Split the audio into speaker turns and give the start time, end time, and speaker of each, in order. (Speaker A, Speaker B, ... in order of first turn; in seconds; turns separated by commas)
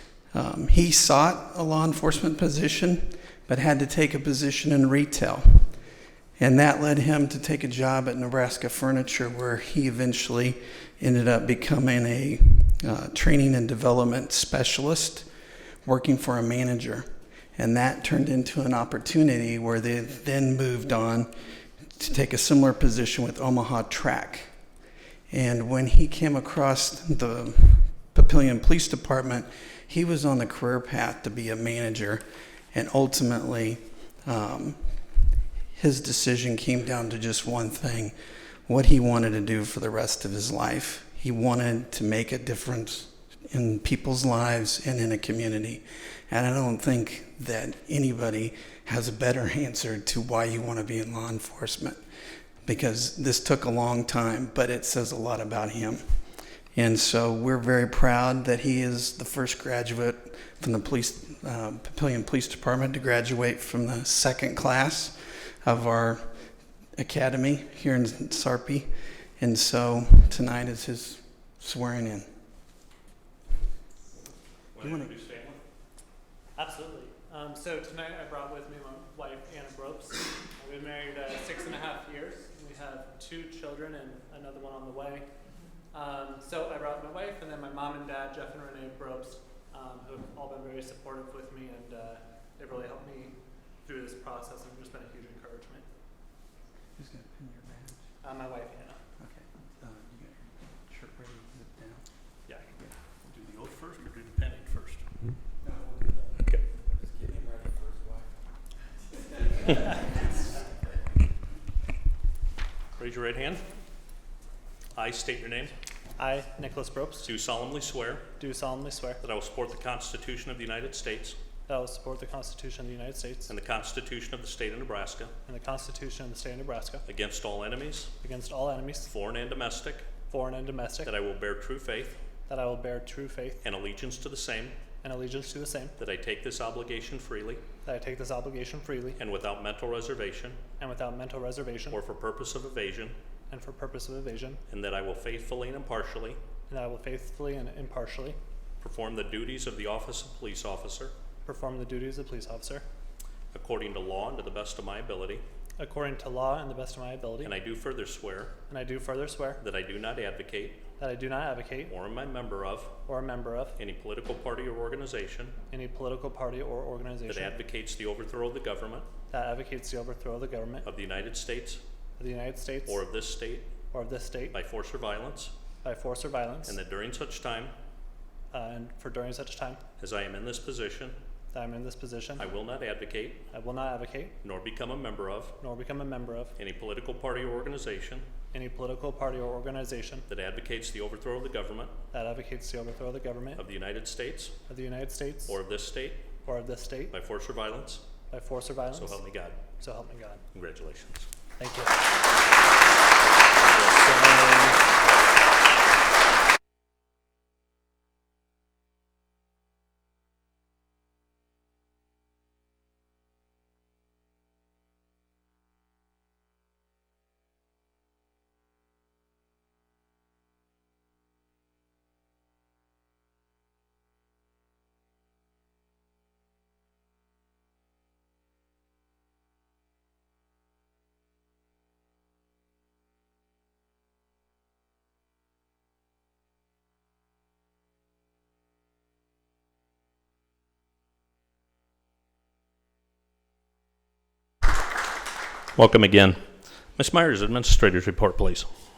Speaker A: 0.3-5.7, Speaker A: 6.4-15.3, Speaker A: 15.8-21.3, Speaker A: 21.8-24.5, Speaker A: 25.3-35.0, Speaker A: 35.7-38.1, Speaker A: 38.7-52.0, Speaker A: 52.6-56.0, Speaker A: 56.7-66.4, Speaker A: 67.0-72.3, Speaker B: 74.7-75.6, Speaker A: 74.8-75.1, Speaker C: 76.5-85.2, Speaker C: 85.9-95.8, Speaker A: 97.0-98.0, Speaker C: 98.2-99.0, Speaker A: 99.2-102.0, Speaker B: 102.5-105.0, Speaker A: 105.6-108.3, Speaker A: 109.3-109.7, Speaker B: 113.0-113.6, Speaker B: 114.9-115.7, Speaker C: 116.2-117.2, Speaker B: 117.2-118.3, Speaker C: 118.4-119.2, Speaker B: 119.2-121.4, Speaker C: 121.7-123.5, Speaker B: 123.5-125.3, Speaker C: 125.5-127.0, Speaker B: 127.1-128.1, Speaker C: 128.2-129.1, Speaker B: 129.1-130.1, Speaker C: 130.3-131.1, Speaker B: 131.0-132.2, Speaker C: 132.5-133.6, Speaker B: 133.6-134.8, Speaker C: 135.0-135.9, Speaker B: 136.0-137.6, Speaker C: 137.8-139.2, Speaker B: 139.2-140.6, Speaker C: 140.8-142.0, Speaker B: 141.9-143.2, Speaker C: 143.5-144.6, Speaker B: 144.7-146.4, Speaker C: 146.7-148.4, Speaker B: 148.8-151.1, Speaker C: 151.4-152.8, Speaker B: 153.5-155.4, Speaker C: 155.8-157.5, Speaker B: 157.4-158.6, Speaker C: 158.7-159.6, Speaker B: 159.6-160.8, Speaker C: 161.0-161.9, Speaker B: 161.9-162.9, Speaker C: 163.1-163.7, Speaker B: 163.8-165.6, Speaker C: 165.7-167.5, Speaker B: 167.3-169.1, Speaker C: 169.3-170.8, Speaker B: 170.8-171.8, Speaker C: 172.2-173.0, Speaker B: 172.8-173.7, Speaker C: 173.9-174.5, Speaker B: 174.5-175.5, Speaker C: 175.8-176.7, Speaker B: 176.6-177.7, Speaker C: 178.5-179.8, Speaker B: 180.0-181.2, Speaker C: 181.5-182.4, Speaker B: 182.4-183.4, Speaker C: 183.5-184.3, Speaker B: 184.4-185.5, Speaker C: 185.6-186.5, Speaker B: 186.6-188.2, Speaker C: 188.5-190.2, Speaker B: 190.3-191.9, Speaker C: 192.1-193.6, Speaker B: 193.6-194.5, Speaker C: 194.7-195.5, Speaker B: 195.5-196.2, Speaker C: 196.4-197.1, Speaker B: 197.1-198.0, Speaker C: 198.3-199.2, Speaker B: 198.9-199.6, Speaker C: 199.7-200.4, Speaker B: 200.5-201.3, Speaker C: 201.6-202.0, Speaker B: 203.7-204.7, Speaker B: 245.8-246.4, Speaker B: 246.9-248.7